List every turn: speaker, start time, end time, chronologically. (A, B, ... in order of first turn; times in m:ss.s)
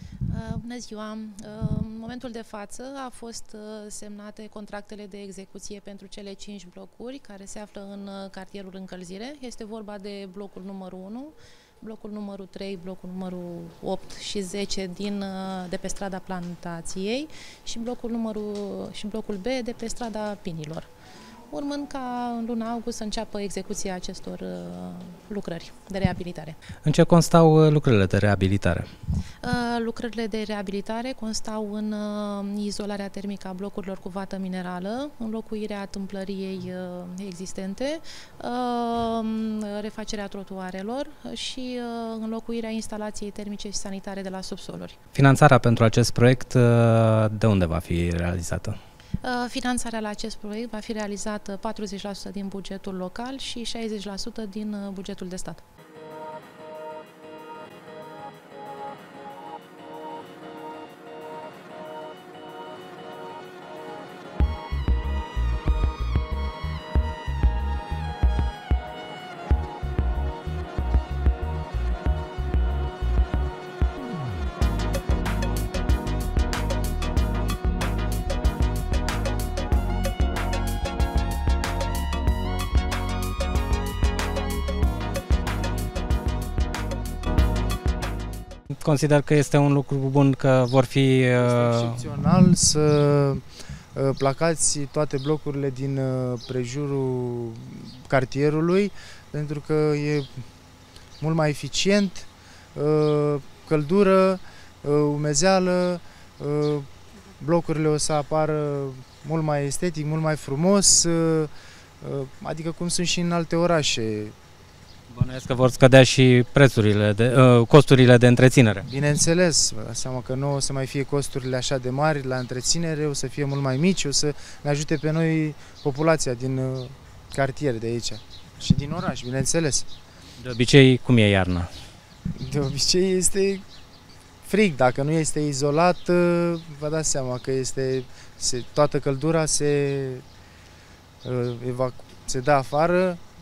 0:00.3-0:20.9 A
0:21.5-0:26.6 A
0:26.8-0:28.9 B
0:29.4-0:45.0 A
0:45.2-0:48.8 B
0:49.2-0:55.6 A
1:28.7-1:32.0 B
1:31.4-1:33.4 C
1:33.9-1:40.5 C
1:41.2-1:46.9 C
1:47.4-1:54.4 C
1:55.1-1:58.9 B
1:58.9-2:09.9 C
2:10.4-2:11.7 B
2:12.4-2:13.6 C
2:14.4-2:20.2 C
2:21.2-2:23.2 C